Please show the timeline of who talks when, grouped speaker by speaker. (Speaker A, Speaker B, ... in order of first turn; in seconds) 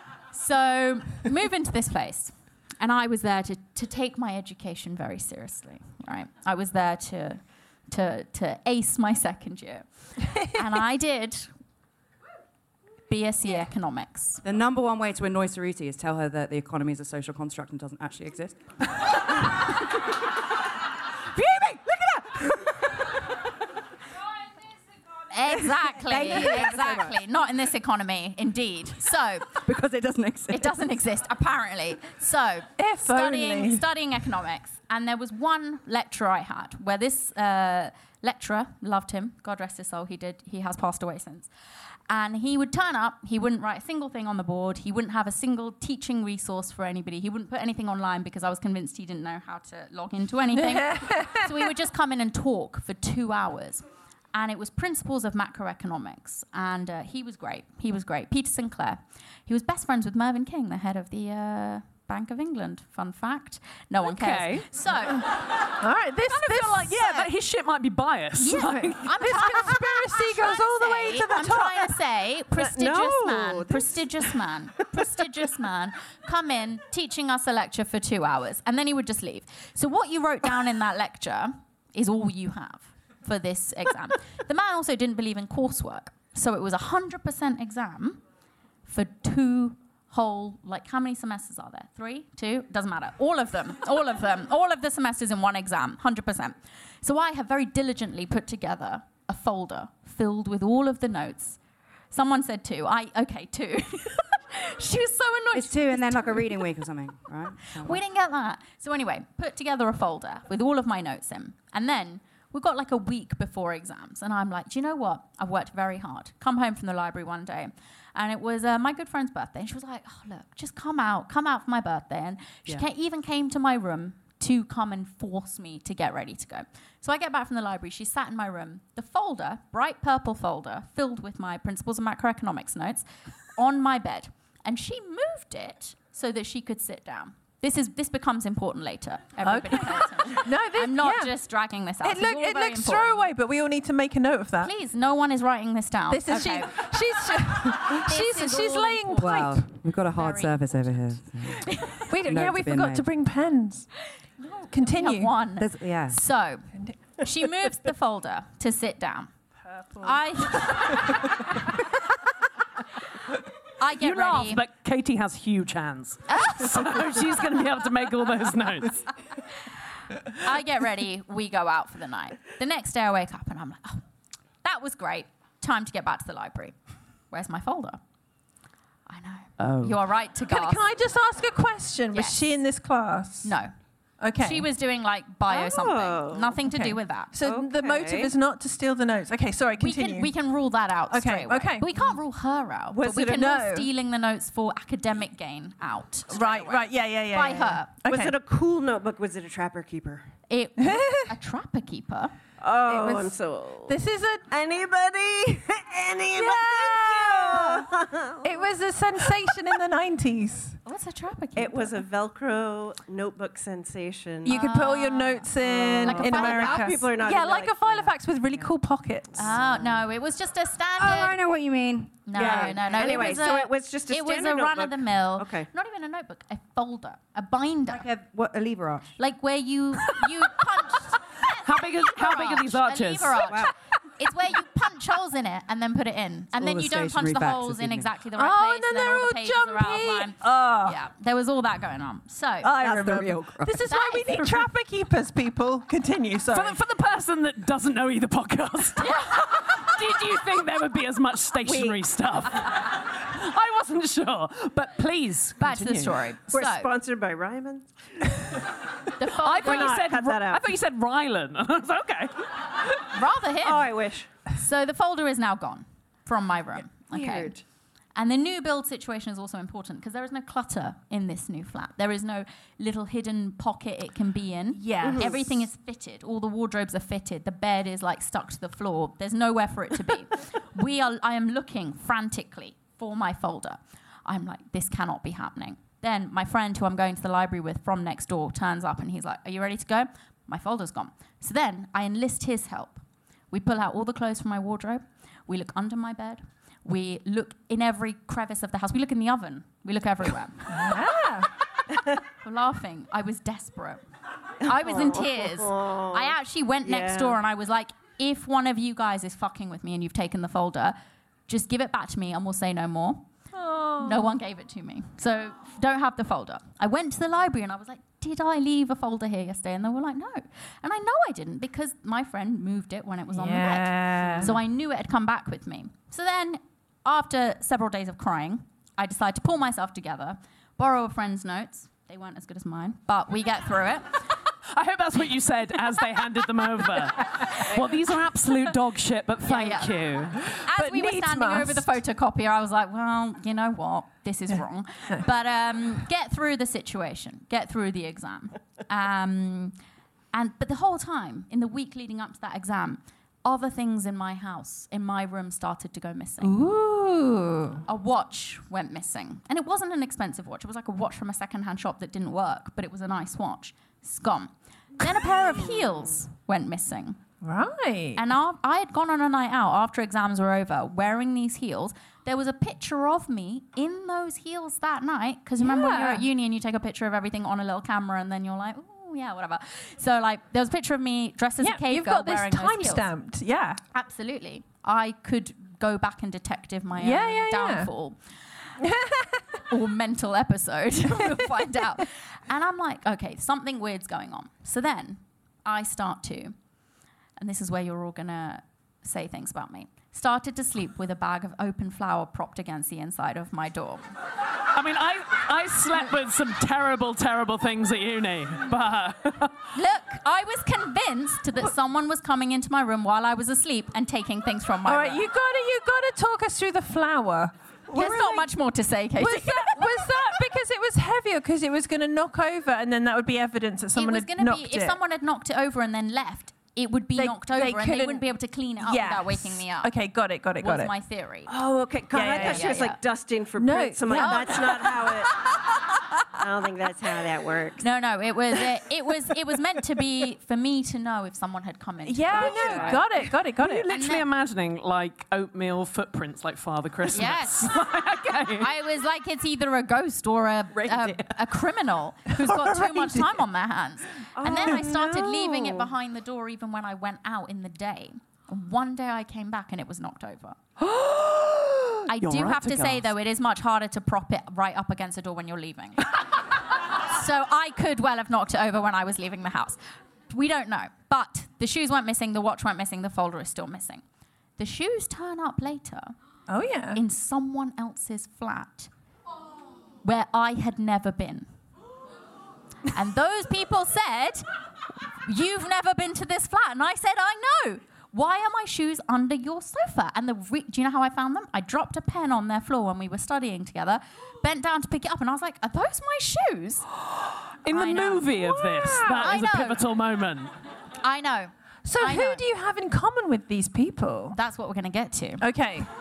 Speaker A: 0.3-11.5, 13.1-14.4, 25.3-29.6, 30.5-41.5, 42.1-65.3, 66.4-67.3, 68.4-88.2, 88.8-101.6, 102.1-106.7, 107.7-143.2, 144.6-146.8, 147.8-151.0, 151.7-152.0, 154.4-159.3, 160.0-161.3, 163.8-164.6, 166.3-167.0, 170.3-174.0, 174.6-176.8, 177.3-178.0, 179.1-180.8, 183.4-183.7, 184.4-187.3, 189.8-197.9, 200.5-202.3, 210.8-212.0, 214.5-215.4, 216.0-216.9, 219.3-221.4, 222.2-228.0, 229.2-242.7, 243.8-244.7, 249.0-249.3, 255.6-256.9, 259.1-260.0, 263.1-263.9, 264.5-267.5, 268.1-300.8, 302.4-304.0, 304.6-310.9, 311.5-313.3, 314.0-334.2, 337.5-337.8, 339.4-349.7, 350.3-356.6, 357.9-367.2, 368.1-383.1, 383.9-388.2, 389.7-396.5, 397.4-404.0, 409.7-415.2, 417.9-420.3, 423.9-429.9, 430.6-431.5, 432.3-433.0, 434.1-434.7, 437.8-443.3, 443.9-444.2, 447.1-447.8, 448.5-460.6, 462.1-466.2, 466.9-474.0, 474.6-476.1, 476.9-478.9, 480.0-481.5, 482.9-484.4, 485.0-496.9, 497.7-498.4, 499.1-499.8, 501.0-502.4, 504.3-505.4
Speaker B: 14.4-18.6, 21.3-22.8, 25.8-27.2, 29.6-30.8, 105.5-108.0, 149.2-153.1, 155.6-156.2, 221.0-223.4, 227.9-229.1, 233.4-233.7, 236.6-238.1, 242.7-243.8, 450.8-451.2
Speaker C: 32.8-33.8, 50.5-51.7, 65.8-67.0, 68.6-71.9, 139.4-141.3, 142.0-144.7, 146.1-149.6, 152.1-153.9, 154.7-155.4, 159.7-160.9, 180.5-183.5, 184.2-184.7, 186.6-190.3, 191.1-192.1, 192.9-193.9, 196.3-198.3, 200.8-201.3, 202.8-204.5, 206.3-207.9, 208.4-210.8, 214.4-219.5, 238.3-241.0, 242.6-246.8, 274.7-275.5, 300.7-301.5, 313.5-314.3, 323.3-324.5, 340.4-341.9, 356.4-357.8, 367.4-368.2, 375.6-376.2, 381.6-383.8, 386.9-387.9, 388.8-389.4, 414.8-418.5, 419.1-425.0, 427.1-428.3, 428.8-430.9, 432.1-432.9, 433.6-435.2, 442.0-443.9, 452.3-453.4, 461.2-461.9, 476.5-477.0, 498.4-499.3, 501.8-504.4, 505.4-505.9
Speaker D: 64.0-64.7, 66.5-69.1, 164.0-169.1, 179.6-179.9, 231.6-233.5, 246.5-256.2, 259.4-262.5, 334.7-340.4, 404.7-409.6, 443.6-448.7, 462.2-463.0, 497.6-500.5
Speaker E: 72.5-74.0, 185.5-186.6, 187.4-188.3, 198.0-200.3, 202.6-204.0, 204.5-208.6, 211.6-214.6, 215.6-218.1, 222.3-225.7, 251.6-252.0, 256.5-258.4, 259.6-260.7, 263.6-264.3, 267.1-267.5, 275.0-275.3, 304.6-307.4, 431.5-435.3, 436.4-437.8, 442.4-443.0, 454.4-455.9